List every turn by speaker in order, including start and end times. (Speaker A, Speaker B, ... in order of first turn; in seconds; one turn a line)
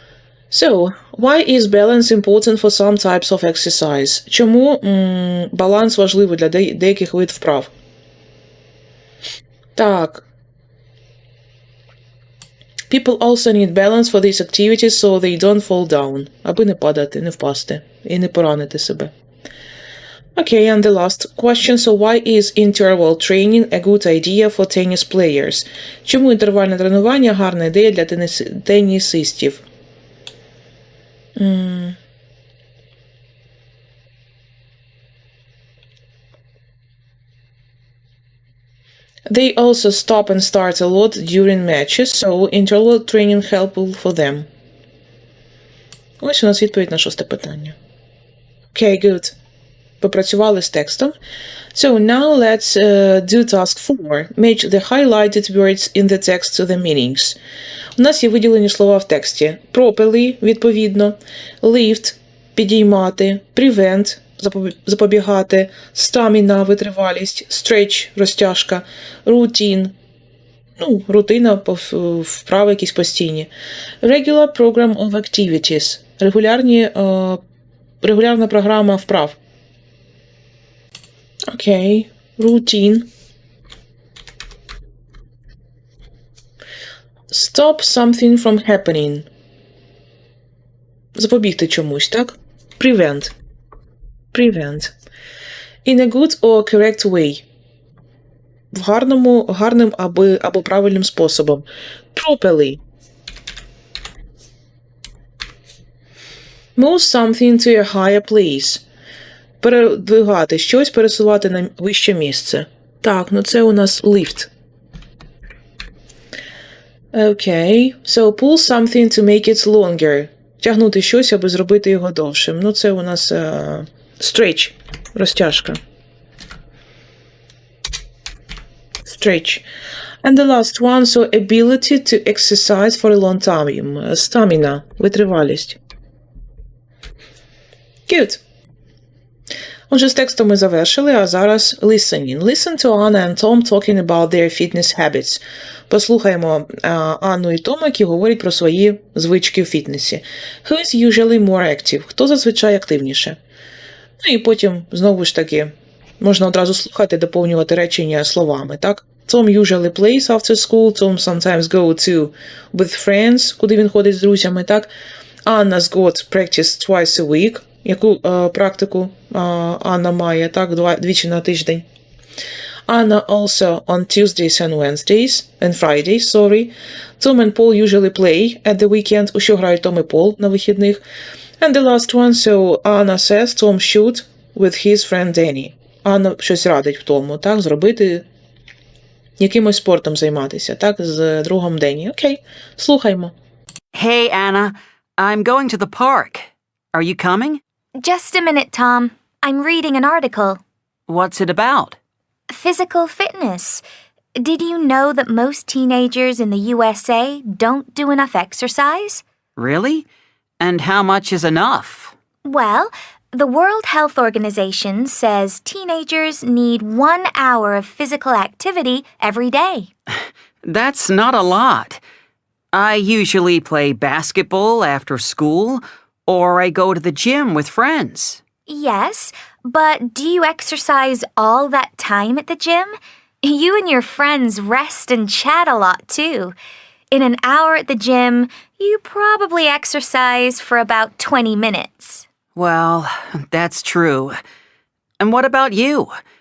Speaker A: 0.5-7.7
Speaker A: 9.8-10.3
Speaker A: 12.9-19.1
Speaker A: 20.4-29.6
Speaker A: 31.4-32.0
Speaker A: 39.3-44.5
Speaker A: 46.2-47.8
Speaker A: 48.7-49.4
Speaker A: 50.0-51.1
Speaker A: 51.7-57.4
Speaker A: 58.0-69.9
Speaker A: 70.8-73.5
Speaker A: 74.0-77.4
Speaker A: 78.0-79.4
Speaker A: 81.5-83.1
Speaker A: 87.3-89.3
Speaker A: 91.2-93.3
Speaker A: 94.3-94.9
Speaker A: 95.8-97.5
Speaker A: 98.7-102.8
Speaker A: 106.8-108.8
Speaker A: 109.6-114.5
Speaker A: 117.1-125.8
Speaker A: 129.1-129.7
Speaker A: 130.2-135.8
Speaker A: 138.1-138.4
Speaker A: 139.9-153.4
Speaker A: 154.2-164.9
Speaker A: 165.5-171.8
Speaker A: 172.9-181.0
Speaker A: 181.6-188.2
Speaker A: 189.4-193.3
Speaker B: 193.9-197.6
Speaker C: 198.0-200.6
Speaker B: 201.1-202.0
Speaker C: 202.5-203.8
Speaker C: 204.4-209.2
Speaker B: 209.6-210.1
Speaker B: 210.6-212.1
Speaker C: 212.4-219.9
Speaker B: 220.6-222.0
Speaker B: 222.7-228.4
Speaker C: 228.7-236.5
Speaker C: 237.1-242.2
Speaker B: 242.6-244.4
Speaker B: 245.2-246.1